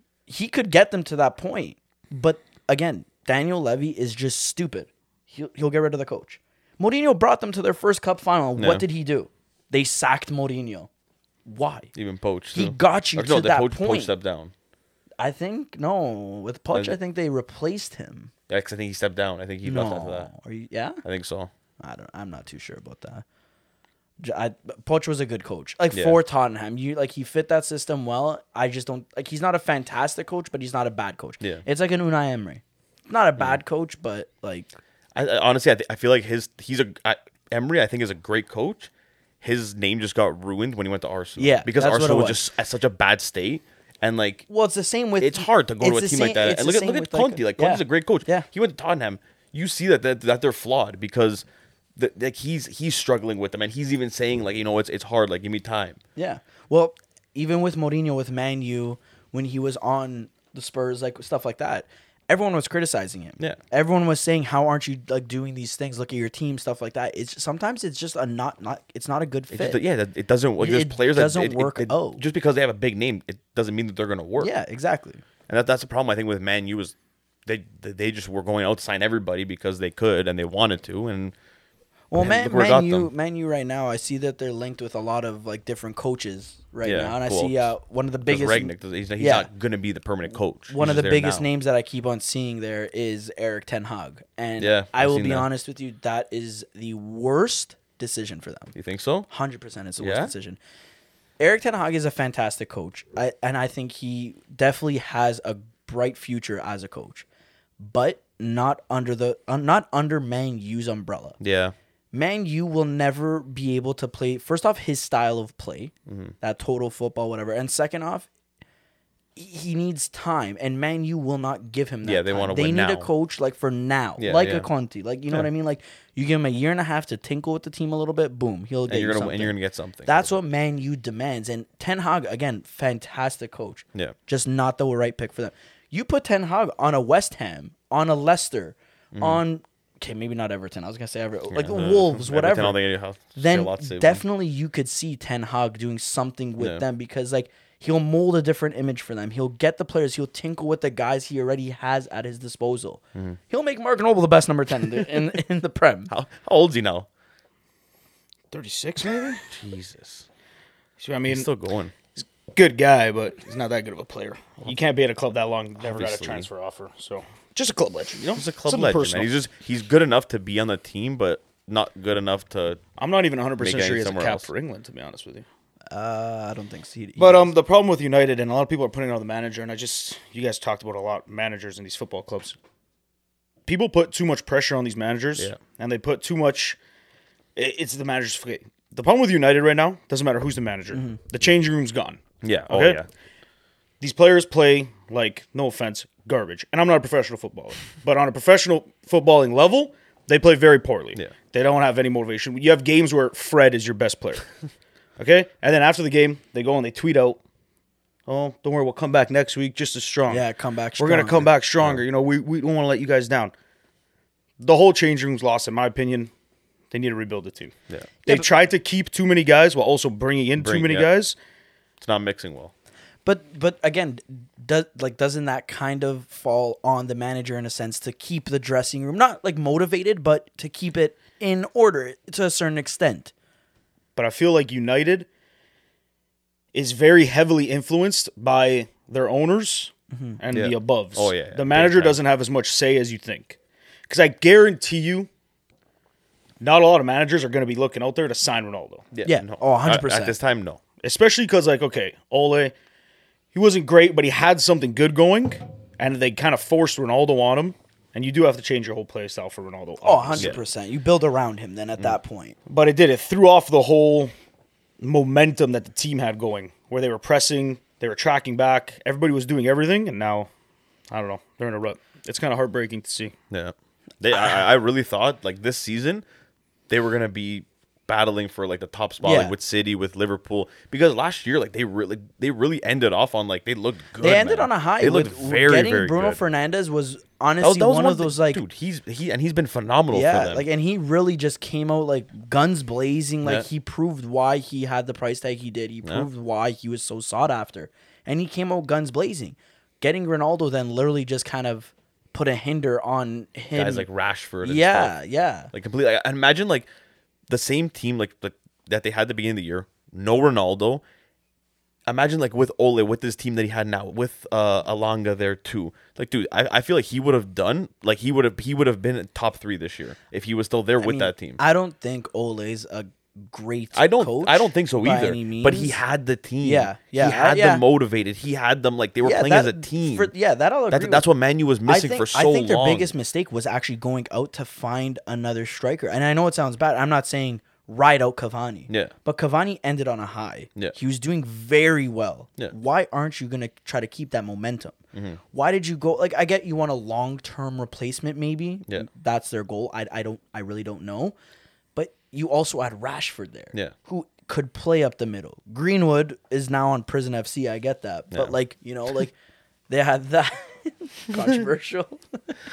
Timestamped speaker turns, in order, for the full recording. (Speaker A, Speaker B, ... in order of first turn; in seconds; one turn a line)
Speaker A: 0.3-10.9
Speaker B: 8.6-8.8
Speaker A: 11.4-11.9
Speaker B: 11.9-14.5
Speaker A: 12.5-14.1
Speaker A: 15.2-18.3
Speaker B: 18.5-20.3
Speaker A: 19.6-21.0
Speaker B: 21.1-21.5
Speaker A: 21.8-23.2
Speaker A: 24.2-34.8
Speaker B: 25.9-26.2
Speaker B: 35.1-38.9
Speaker B: 39.4-44.5
Speaker A: 41.4-42.4
Speaker A: 44.5-48.5
Speaker B: 45.2-51.5
Speaker B: 52.0-56.0
Speaker A: 56.2-69.8
Speaker B: 69.5-74.5
Speaker A: 70.6-72.2
Speaker A: 74.4-75.2
Speaker B: 75.5-76.9
Speaker B: 77.5-81.3
Speaker A: 82.1-89.5
Speaker B: 82.2-83.1
Speaker B: 86.8-87.7
Speaker B: 88.3-91.5
Speaker A: 90.7-98.8
Speaker B: 94.6-95.5
Speaker B: 98.8-99.3
Speaker A: 99.3-100.6
Speaker B: 100.0-100.3
Speaker A: 101.4-107.2
Speaker A: 107.8-111.4
Speaker B: 111.4-111.8
Speaker A: 112.1-118.3
Speaker B: 116.1-116.3
Speaker A: 119.4-142.8
Speaker B: 122.0-123.1
Speaker B: 124.2-124.7
Speaker B: 128.9-130.4
Speaker B: 139.1-139.4
Speaker B: 141.5-144.2
Speaker A: 143.3-156.1
Speaker B: 156.1-157.1
Speaker C: 158.5-159.4
Speaker B: 159.5-160.3
Speaker C: 161.0-161.5
Speaker B: 161.3-161.9
Speaker C: 162.2-169.3
Speaker B: 165.8-166.5
Speaker B: 168.2-172.8
Speaker C: 173.0-175.5
Speaker B: 173.6-174.5
Speaker A: 175.9-177.5
Speaker C: 177.2-182.6
Speaker C: 183.7-186.8
Speaker C: 187.6-193.0
Speaker B: 192.4-193.1
Speaker C: 194.0-204.4
Speaker C: 205.2-207.4
Speaker C: 208.3-210.5
Speaker A: 210.3-211.5
Speaker C: 211.0-213.5
Speaker C: 214.6-216.3
Speaker C: 216.9-217.7
Speaker C: 218.3-221.3
Speaker B: 220.6-221.1
Speaker B: 222.0-222.7
Speaker A: 223.2-233.3
Speaker C: 234.2-235.3
Speaker C: 236.7-243.6
Speaker A: 240.1-240.4
Speaker B: 240.5-242.2
Speaker C: 244.1-245.3
Speaker C: 246.6-249.1
Speaker B: 249.1-250.8
Speaker A: 249.2-250.4
Speaker C: 251.0-252.7
Speaker C: 253.5-260.6
Speaker A: 260.0-262.6
Speaker C: 262.7-264.3
Speaker C: 265.0-270.5
Speaker C: 271.1-273.3
Speaker B: 273.5-276.2
Speaker B: 276.9-286.4
Speaker A: 279.2-279.5
Speaker A: 284.2-288.6
Speaker B: 287.6-290.7
Speaker A: 290.1-304.1
Speaker B: 303.7-305.1
Speaker A: 304.6-305.7
Speaker B: 305.7-306.9
Speaker B: 307.5-311.0
Speaker B: 312.1-321.6
Speaker A: 321.0-326.0
Speaker B: 323.9-330.3
Speaker A: 326.6-327.9
Speaker A: 329.2-331.3
Speaker B: 330.9-333.1
Speaker A: 331.9-344.9
Speaker B: 345.1-345.4
Speaker A: 345.5-351.4
Speaker A: 351.9-359.3
Speaker A: 359.9-362.6